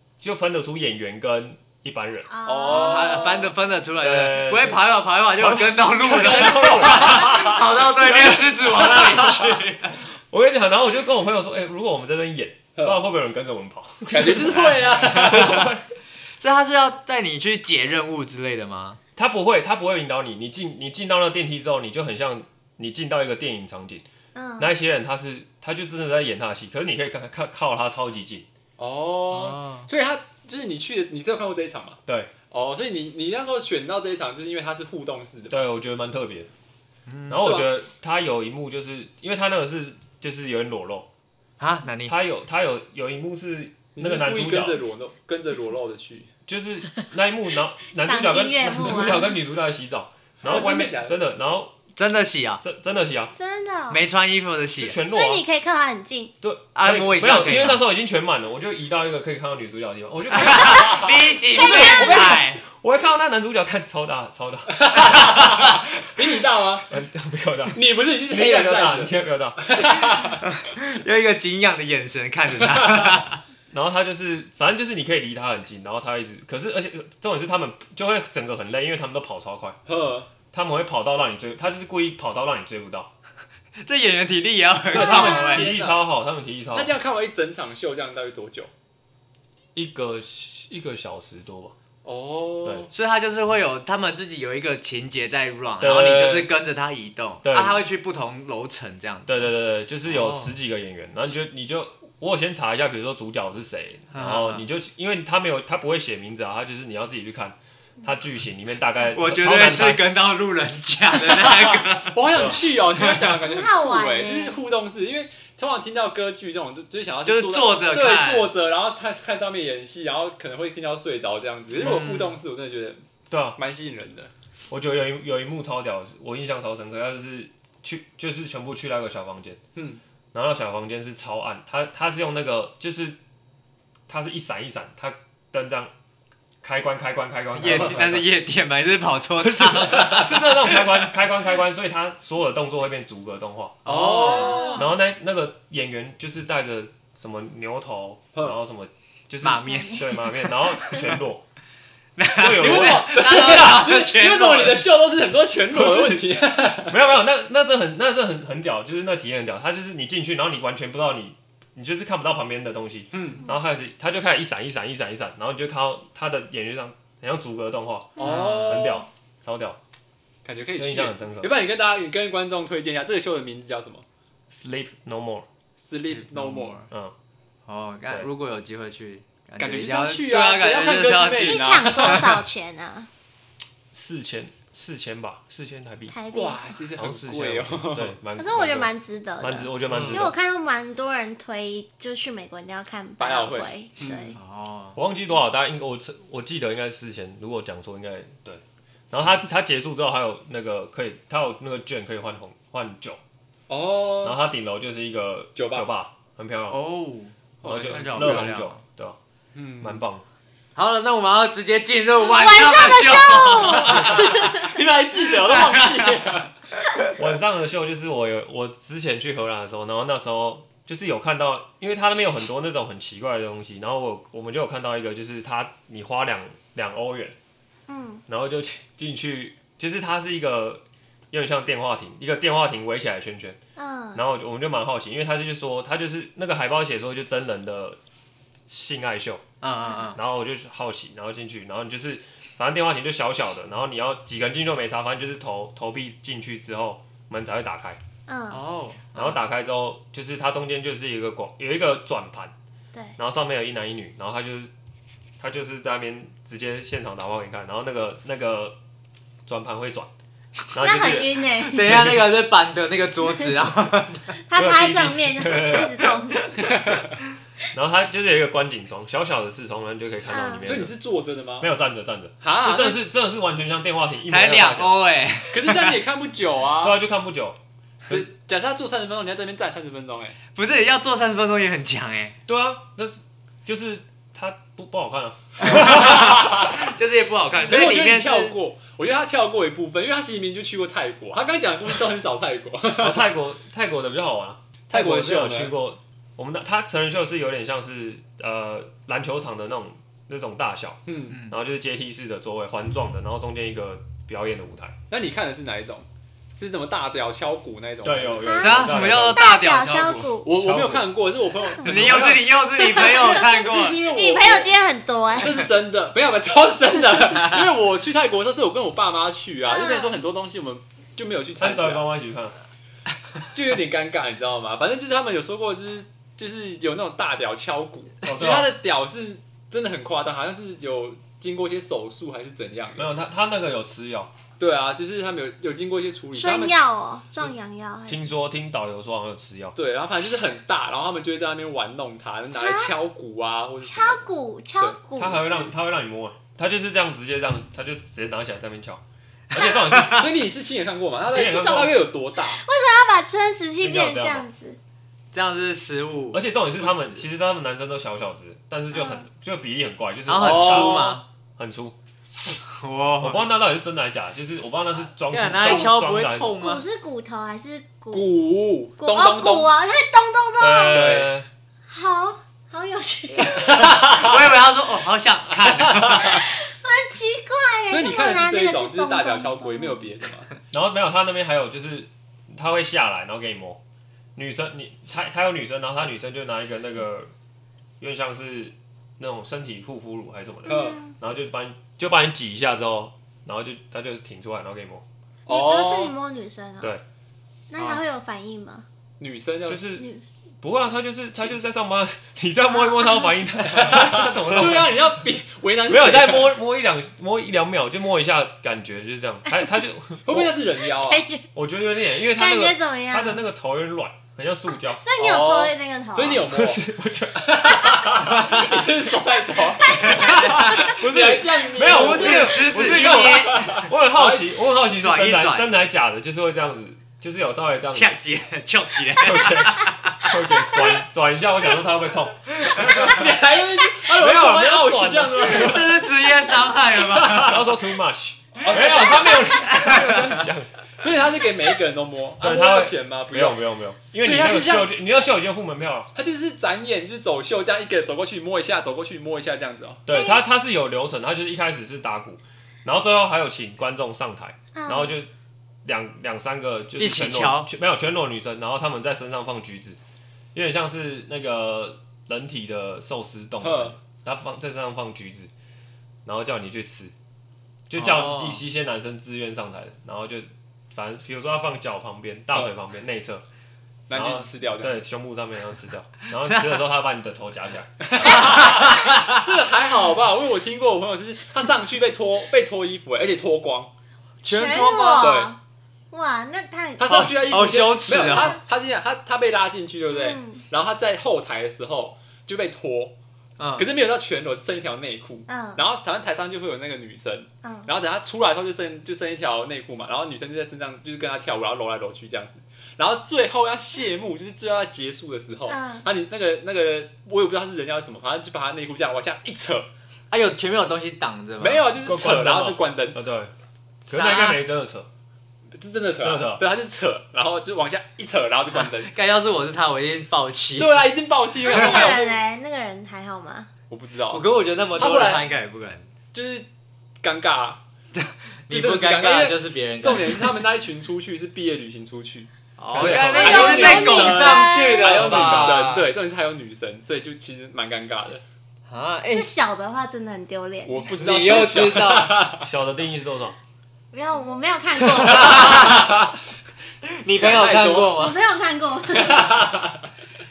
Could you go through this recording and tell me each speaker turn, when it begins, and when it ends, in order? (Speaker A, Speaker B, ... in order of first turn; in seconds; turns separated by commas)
Speaker A: 0.2-2.3, Speaker B: 2.3-3.5, Speaker C: 2.4-3.4, Speaker D: 2.7-9.9, Speaker A: 4.0-4.8, Speaker A: 5.4-15.8, Speaker C: 6.3-7.4, Speaker C: 14.1-15.7, Speaker D: 16.4-19.0, Speaker A: 19.2-24.0, Speaker B: 24.3-24.7, Speaker A: 24.6-28.4, Speaker C: 28.8-32.0, Speaker D: 29.4-29.9, Speaker A: 32.0-32.3, Speaker C: 32.5-35.6, Speaker A: 35.5-36.5, Speaker D: 37.1-37.5, Speaker A: 37.3-41.1, Speaker C: 37.4-37.7, Speaker D: 41.6-42.1, Speaker A: 42.0-44.8, Speaker C: 43.9-46.3, Speaker A: 46.5-51.7, Speaker B: 48.0-49.4, Speaker C: 50.4-51.2, Speaker D: 52.0-52.6, Speaker A: 52.6-53.3, Speaker B: 53.3-54.0, Speaker D: 53.9-55.0, Speaker A: 54.8-55.4, Speaker B: 55.0-56.3, Speaker A: 56.4-61.0, Speaker D: 56.7-57.8, Speaker D: 60.3-62.6, Speaker B: 60.5-62.4, Speaker A: 62.0-65.4, Speaker C: 64.7-66.9, Speaker A: 66.9-70.2, Speaker C: 67.7-70.4, Speaker D: 70.4-73.4, Speaker C: 72.6-73.2, Speaker A: 73.7-79.8, Speaker C: 79.8-80.3, Speaker A: 80.5-83.1, Speaker D: 83.8-85.7, Speaker A: 84.9-86.9, Speaker B: 84.9-85.6, Speaker C: 85.1-86.0, Speaker C: 86.7-88.7, Speaker A: 89.7-91.7, Speaker C: 92.0-92.9, Speaker D: 92.9-99.3, Speaker A: 95.8-96.5, Speaker A: 97.4-97.8, Speaker A: 99.2-110.0, Speaker D: 100.0-100.5, Speaker D: 104.1-104.6, Speaker D: 109.1-112.3, Speaker C: 111.3-124.3, Speaker A: 112.3-112.6, Speaker D: 112.9-113.3, Speaker B: 113.3-114.6, Speaker D: 117.2-118.5, Speaker D: 121.8-122.2, Speaker A: 121.8-122.2, Speaker A: 123.3-123.6, Speaker A: 124.7-129.6, Speaker A: 130.3-133.2, Speaker A: 134.1-135.9, Speaker A: 136.6-138.3, Speaker D: 137.6-141.1, Speaker C: 137.6-138.0, Speaker C: 139.6-140.1, Speaker A: 139.8-151.4, Speaker C: 143.8-144.9, Speaker D: 143.9-144.7, Speaker B: 144.2-144.9, Speaker D: 149.4-151.1, Speaker B: 149.7-150.1, Speaker D: 152.2-154.8, Speaker A: 152.3-153.1, Speaker C: 152.6-157.1, Speaker A: 156.9-169.8, Speaker C: 163.1-163.4, Speaker C: 168.2-169.1, Speaker D: 168.2-168.9, Speaker C: 170.4-174.0, Speaker A: 170.8-171.6, Speaker A: 174.5-175.4, Speaker C: 175.8-176.8, Speaker D: 176.1-176.9, Speaker D: 177.7-182.4, Speaker C: 179.6-182.4, Speaker B: 181.4-183.1, Speaker A: 183.9-186.2, Speaker B: 186.1-186.6, Speaker C: 186.3-188.2, Speaker A: 187.0-190.3, Speaker B: 188.4-194.4, Speaker D: 189.9-190.3, Speaker C: 193.2-194.4, Speaker D: 194.3-195.0, Speaker A: 194.9-203.2, Speaker C: 203.7-204.4, Speaker A: 204.2-206.8, Speaker C: 205.6-205.9, Speaker D: 206.7-208.8, Speaker C: 207.6-208.6, Speaker A: 207.6-209.2, Speaker C: 209.5-210.0, Speaker A: 209.8-210.2, Speaker D: 210.7-214.7, Speaker B: 212.2-214.7, Speaker C: 213.8-216.5, Speaker D: 215.5-216.1, Speaker A: 217.2-227.3, Speaker B: 227.9-228.2, Speaker A: 228.3-233.6, Speaker B: 233.8-234.2, Speaker A: 234.1-238.0, Speaker A: 238.7-239.4, Speaker D: 239.6-240.2, Speaker B: 239.8-240.2, Speaker A: 240.1-248.0, Speaker B: 248.3-248.6, Speaker D: 248.5-249.4, Speaker A: 249.1-252.5, Speaker A: 253.2-254.7, Speaker A: 255.4-258.8, Speaker A: 259.4-260.1, Speaker A: 260.7-262.3, Speaker B: 260.8-262.0, Speaker D: 261.7-264.4, Speaker B: 264.5-266.7, Speaker A: 264.5-266.1, Speaker C: 266.6-267.0, Speaker A: 267.7-270.9, Speaker B: 270.3-270.6, Speaker C: 270.6-271.7, Speaker A: 271.6-274.9, Speaker C: 272.4-273.0, Speaker D: 274.3-276.0, Speaker C: 275.5-277.0, Speaker A: 276.8-277.6, Speaker C: 278.0-280.4, Speaker D: 280.5-282.4, Speaker A: 282.5-286.5, Speaker D: 285.6-288.5, Speaker C: 285.7-286.9, Speaker C: 287.6-293.3, Speaker A: 293.0-305.0, Speaker C: 294.9-295.7, Speaker C: 301.1-301.4, Speaker C: 305.1-308.6, Speaker A: 308.0-309.4, Speaker B: 308.4-310.6, Speaker D: 308.6-310.3, Speaker C: 310.4-312.6, Speaker A: 310.6-311.1, Speaker B: 311.6-312.2, Speaker D: 311.8-314.0, Speaker B: 312.7-315.6, Speaker C: 313.3-314.7, Speaker C: 315.4-322.1, Speaker B: 319.7-320.1, Speaker A: 321.6-322.6, Speaker C: 323.5-333.1, Speaker A: 328.2-328.7, Speaker A: 333.0-334.3, Speaker C: 334.6-336.8, Speaker B: 336.4-338.3, Speaker A: 338.1-339.8, Speaker C: 339.8-344.2, Speaker B: 342.5-342.9, Speaker B: 343.8-345.7, Speaker A: 345.1-349.0, Speaker A: 349.5-350.3, Speaker D: 349.6-350.3, Speaker C: 349.9-352.6, Speaker A: 351.3-352.0, Speaker B: 351.5-351.9, Speaker B: 352.5-354.8, Speaker A: 353.8-354.4, Speaker D: 355.3-357.1, Speaker A: 356.3-361.9, Speaker B: 358.9-359.2, Speaker D: 360.3-361.2, Speaker C: 360.4-361.2, Speaker D: 362.7-363.5, Speaker A: 363.2-366.5, Speaker D: 365.3-366.8, Speaker B: 366.6-368.2, Speaker C: 368.1-369.7, Speaker B: 369.0-371.2, Speaker A: 370.6-371.5, Speaker C: 370.9-371.3, Speaker B: 371.9-374.1, Speaker C: 373.8-374.4, Speaker D: 373.8-376.4, Speaker C: 375.6-376.4, Speaker B: 376.2-380.0, Speaker C: 377.9-380.5, Speaker A: 380.7-383.8, Speaker A: 384.4-387.3, Speaker A: 388.0-395.0, Speaker B: 390.6-391.1, Speaker C: 390.7-391.0, Speaker C: 395.4-396.1, Speaker B: 395.5-396.9, Speaker B: 397.7-398.8, Speaker C: 399.2-399.8, Speaker A: 399.7-400.1, Speaker A: 400.6-405.1, Speaker B: 402.7-403.4, Speaker C: 403.7-406.6, Speaker A: 405.9-410.5, Speaker C: 410.2-411.2, Speaker B: 410.8-411.5, Speaker A: 411.5-415.0, Speaker B: 412.2-413.4, Speaker B: 414.9-416.5, Speaker C: 415.2-416.8, Speaker A: 416.3-417.8, Speaker C: 417.4-424.6, Speaker B: 419.5-420.5, Speaker A: 420.1-428.1, Speaker D: 420.3-420.8, Speaker D: 421.8-423.8, Speaker D: 424.6-425.7, Speaker D: 427.9-430.9, Speaker A: 429.1-433.3, Speaker C: 432.8-436.1, Speaker A: 434.1-435.9, Speaker D: 435.4-437.7, Speaker C: 436.9-437.6, Speaker A: 437.3-440.7, Speaker C: 438.6-439.6, Speaker D: 439.5-440.4, Speaker C: 441.0-443.6, Speaker A: 442.4-446.1, Speaker C: 444.2-445.0, Speaker C: 446.1-450.0, Speaker A: 450.1-455.3, Speaker B: 450.1-450.4, Speaker B: 454.7-455.2, Speaker A: 455.8-460.0, Speaker D: 457.0-457.7, Speaker A: 460.5-465.5, Speaker C: 463.6-463.9, Speaker A: 466.2-467.1, Speaker A: 467.9-473.4, Speaker D: 467.9-468.6, Speaker C: 474.1-475.0, Speaker A: 474.1-477.9, Speaker D: 476.4-476.8, Speaker C: 478.0-483.9, Speaker D: 478.2-479.4, Speaker D: 484.4-485.4, Speaker B: 484.4-485.6, Speaker C: 485.2-485.5, Speaker B: 486.1-487.3, Speaker C: 487.0-493.1, Speaker D: 487.1-488.6, Speaker B: 488.3-488.6, Speaker B: 490.1-490.6, Speaker D: 493.6-493.9, Speaker C: 493.8-509.9, Speaker B: 495.5-495.8, Speaker B: 497.6-497.9, Speaker B: 505.7-506.1, Speaker D: 510.3-511.8, Speaker C: 511.6-513.2, Speaker A: 512.0-513.5, Speaker D: 514.0-514.6, Speaker A: 514.1-515.1, Speaker C: 515.7-519.1, Speaker A: 516.2-516.6, Speaker D: 519.0-521.0, Speaker C: 520.8-522.4, Speaker B: 521.6-523.7, Speaker C: 523.9-525.5, Speaker D: 524.3-526.1, Speaker C: 526.3-526.7, Speaker C: 527.2-527.8, Speaker D: 528.1-530.5, Speaker C: 528.7-538.4, Speaker D: 532.8-536.1, Speaker A: 532.9-533.6, Speaker B: 533.1-535.2, Speaker A: 535.1-535.7, Speaker D: 538.9-539.5, Speaker B: 539.1-541.1, Speaker C: 540.8-542.7, Speaker D: 541.1-542.5, Speaker A: 542.6-543.5, Speaker B: 544.1-546.1, Speaker D: 545.0-546.2, Speaker D: 547.0-548.3, Speaker C: 547.3-548.1, Speaker B: 547.4-549.6, Speaker C: 549.1-550.1